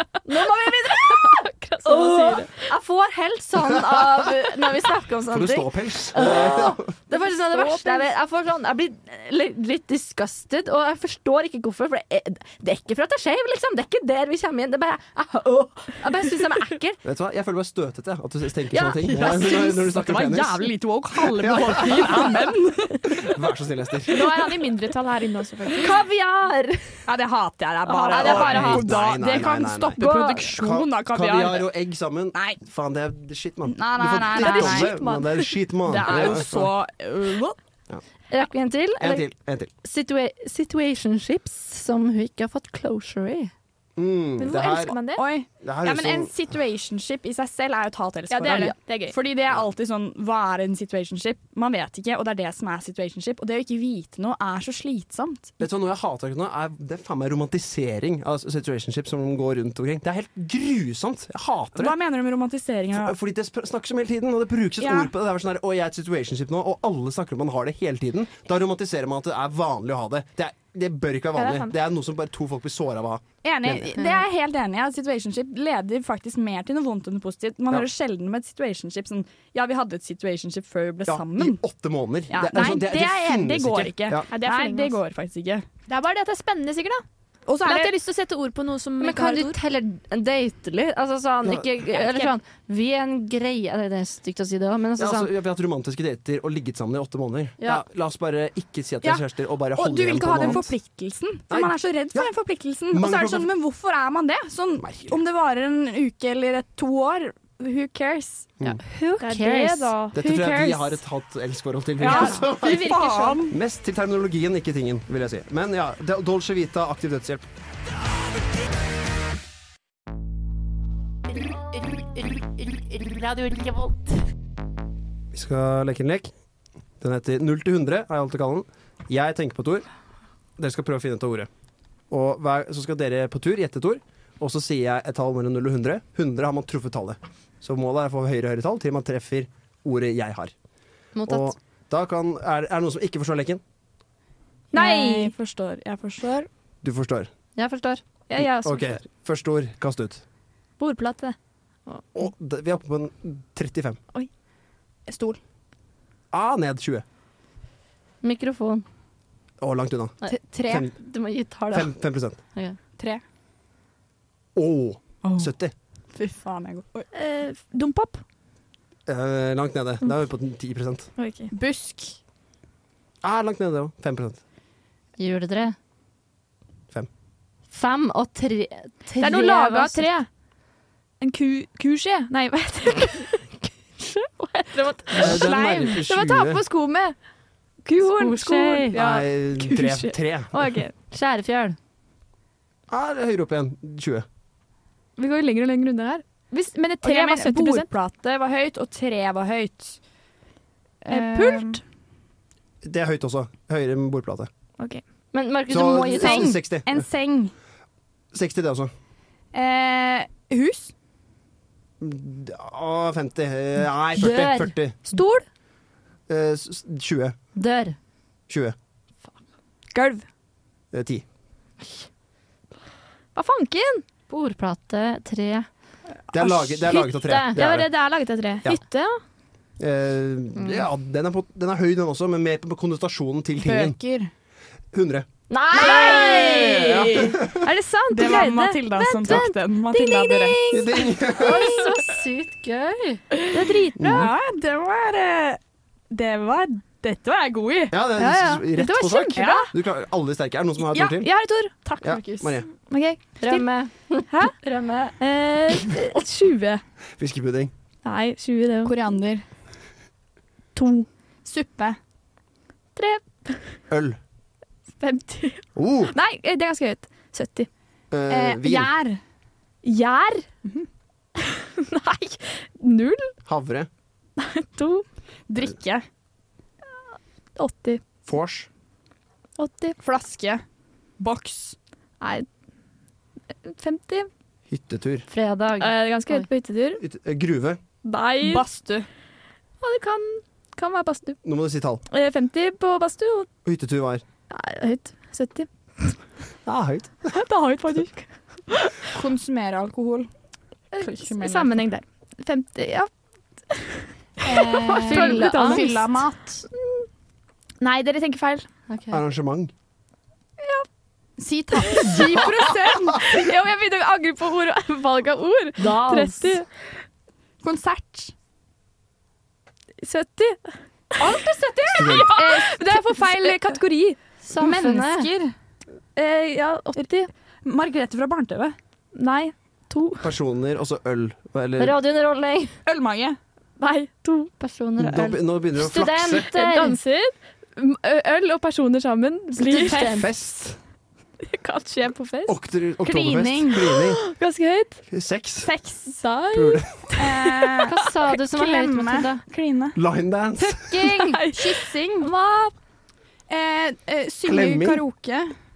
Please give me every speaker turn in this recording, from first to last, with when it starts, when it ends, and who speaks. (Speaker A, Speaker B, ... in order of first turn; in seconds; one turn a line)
Speaker A: 0.3-17.0
Speaker B: 0.3-2.7
Speaker C: 5.3-6.9
Speaker B: 7.3-8.1
Speaker C: 17.0-22.5
Speaker D: 18.7-23.3
Speaker C: 23.1-24.3
Speaker B: 24.1-26.0
Speaker A: 25.8-27.1
Speaker D: 27.1-31.7
Speaker B: 27.9-28.9
Speaker C: 28.1-36.7
Speaker A: 30.0-30.5
Speaker D: 32.3-32.6
Speaker D: 33.7-35.0
Speaker B: 34.3-35.5
Speaker D: 35.9-37.6
Speaker A: 38.3-39.3
Speaker C: 39.0-39.7
Speaker A: 39.8-43.5
Speaker C: 44.0-45.0
Speaker B: 44.4-45.2
Speaker D: 45.2-55.5
Speaker C: 45.6-46.3
Speaker B: 48.3-49.2
Speaker C: 55.6-62.0
Speaker D: 61.8-63.2
Speaker C: 62.9-74.0
Speaker D: 64.8-65.1
Speaker B: 71.4-71.7
Speaker D: 73.4-81.6
Speaker C: 81.1-84.3
Speaker D: 82.3-85.7
Speaker B: 84.3-85.0
Speaker B: 85.9-87.0
Speaker D: 87.5-87.9
Speaker B: 87.6-89.6
Speaker A: 89.0-95.3
Speaker B: 91.9-92.3
Speaker C: 95.0-100.8
Speaker D: 99.0-108.5
Speaker C: 101.5-102.3
Speaker C: 102.9-103.5
Speaker C: 104.8-105.2
Speaker A: 108.7-110.0
Speaker B: 109.2-110.2
Speaker C: 110.1-113.0
Speaker D: 110.2-110.8
Speaker B: 112.0-113.5
Speaker D: 112.0-113.6
Speaker C: 113.5-117.5
Speaker A: 123.2-124.0
Speaker C: 125.3-126.3
Speaker C: 127.0-129.9
Speaker C: 130.6-131.5
Speaker C: 132.1-140.5
Speaker A: 141.2-141.6
Speaker C: 141.3-143.6
Speaker B: 144.7-145.3
Speaker D: 144.7-146.5
Speaker C: 146.8-147.3
Speaker A: 147.6-148.0
Speaker B: 148.3-148.9
Speaker C: 148.4-150.2
Speaker B: 150.8-151.4
Speaker C: 152.2-154.0
Speaker D: 155.1-155.4
Speaker C: 156.3-157.1
Speaker A: 158.2-158.8
Speaker C: 159.6-160.9
Speaker A: 160.2-161.9
Speaker D: 160.3-160.9
Speaker C: 161.7-162.4
Speaker D: 163.0-163.2
Speaker C: 164.6-165.7
Speaker D: 165.2-165.5
Speaker D: 166.1-167.1
Speaker B: 167.1-168.2
Speaker C: 169.1-171.1
Speaker B: 171.2-171.5
Speaker D: 171.5-172.2
Speaker C: 173.2-174.4
Speaker A: 175.2-175.8
Speaker A: 177.7-180.1
Speaker B: 179.2-180.3
Speaker B: 181.2-183.5
Speaker A: 184.0-184.5
Speaker B: 184.6-187.2
Speaker C: 185.1-186.6
Speaker B: 187.8-190.9
Speaker A: 188.0-188.9
Speaker C: 188.9-190.7
Speaker A: 191.1-191.8
Speaker C: 192.9-194.3
Speaker B: 195.2-197.9
Speaker D: 197.0-200.0
Speaker D: 201.0-201.8
Speaker B: 201.1-201.8
Speaker C: 202.8-204.5
Speaker A: 205.3-206.6
Speaker C: 205.7-207.1
Speaker D: 206.1-207.5
Speaker C: 208.3-208.9
Speaker D: 209.5-210.9
Speaker C: 212.0-215.0
Speaker A: 214.2-214.7
Speaker B: 215.1-215.4
Speaker C: 216.3-217.4
Speaker A: 217.6-218.0
Speaker C: 218.5-218.8
Speaker B: 219.9-220.3
Speaker C: 220.9-221.2
Speaker B: 223.3-224.0
Speaker A: 224.3-225.7
Speaker C: 226.3-227.9
Speaker A: 226.4-227.6
Speaker B: 227.6-229.2
Speaker C: 229.8-234.0
Speaker A: 230.6-230.8
Speaker D: 233.6-234.3
Speaker C: 234.9-237.7
Speaker A: 235.5-237.3
Speaker D: 235.8-236.7
Speaker B: 235.8-236.3
Speaker B: 237.6-240.9
Speaker D: 238.1-240.6
Speaker C: 240.7-241.8
Speaker A: 241.3-243.2
Speaker B: 243.5-244.3
Speaker C: 244.0-244.3
Speaker D: 244.0-245.6
Speaker D: 246.1-248.7
Speaker C: 247.9-251.3
Speaker B: 248.2-249.7
Speaker D: 249.3-249.7
Speaker B: 251.1-251.7
Speaker D: 251.8-252.7
Speaker C: 252.0-252.7
Speaker B: 252.9-253.7
Speaker A: 253.4-255.1
Speaker B: 254.3-254.6
Speaker B: 255.2-256.8
Speaker C: 257.2-257.7
Speaker B: 258.0-259.0
Speaker D: 258.8-259.5
Speaker B: 260.8-261.1
Speaker D: 261.4-262.0
Speaker B: 263.0-263.8
Speaker C: 263.9-264.2
Speaker B: 265.0-267.7
Speaker C: 265.8-266.1
Speaker C: 268.1-268.9
Speaker D: 268.3-269.2
Speaker B: 269.8-270.5
Speaker B: 271.4-273.3
Speaker C: 273.5-273.9
Speaker B: 274.4-275.1
Speaker D: 275.5-276.1
Speaker B: 277.6-278.0
Speaker C: 278.3-278.7
Speaker B: 279.6-280.0
Speaker D: 280.0-280.6
Speaker D: 281.2-281.8
Speaker B: 282.2-282.5
Speaker B: 283.6-284.3
Speaker C: 284.7-285.3
Speaker A: 285.3-286.5
Speaker B: 285.8-287.0
Speaker C: 287.0-287.8
Speaker B: 288.0-288.7
Speaker D: 288.4-289.1
Speaker B: 289.8-291.4
Speaker C: 291.4-292.0
Speaker B: 292.1-293.5
Speaker C: 293.6-294.2
Speaker B: 294.5-296.2
Speaker C: 296.7-297.4
Speaker B: 297.3-299.1
Speaker D: 299.1-300.3
Speaker B: 300.9-303.1
Speaker D: 300.9-301.9
Speaker B: 303.7-307.1
Speaker D: 304.4-306.6
Speaker A: 304.9-305.9
Speaker B: 307.8-308.7
Speaker A: 308.9-309.2
Speaker C: 309.1-309.7
Speaker B: 310.6-310.9
Speaker D: 311.4-313.2
Speaker B: 311.8-316.7
Speaker A: 315.8-316.6
Speaker D: 317.6-318.3
Speaker B: 320.0-324.2
Speaker D: 321.2-323.7
Speaker C: 321.9-322.3
Speaker A: 324.4-325.3
Speaker D: 324.6-325.5
Speaker B: 326.1-327.3
Speaker D: 327.6-328.8
Speaker B: 329.1-330.3
Speaker C: 330.2-332.0
Speaker A: 331.8-332.8
Speaker D: 332.9-333.4
Speaker B: 333.8-334.5
Speaker A: 334.6-337.0
Speaker C: 335.0-336.5
Speaker B: 336.5-340.3
Speaker A: 339.5-340.3
Speaker C: 340.1-340.8
Speaker B: 341.4-342.6
Speaker C: 342.5-344.2
Speaker D: 343.0-343.8
Speaker B: 343.9-345.1
Speaker C: 345.1-345.7
Speaker B: 345.7-347.9
Speaker C: 346.5-346.9
Speaker D: 347.2-348.0
Speaker A: 347.8-349.4
Speaker D: 348.5-350.0
Speaker C: 349.9-351.1
Speaker D: 350.6-352.3
Speaker B: 351.0-352.7
Speaker D: 353.5-355.6
Speaker C: 354.4-355.1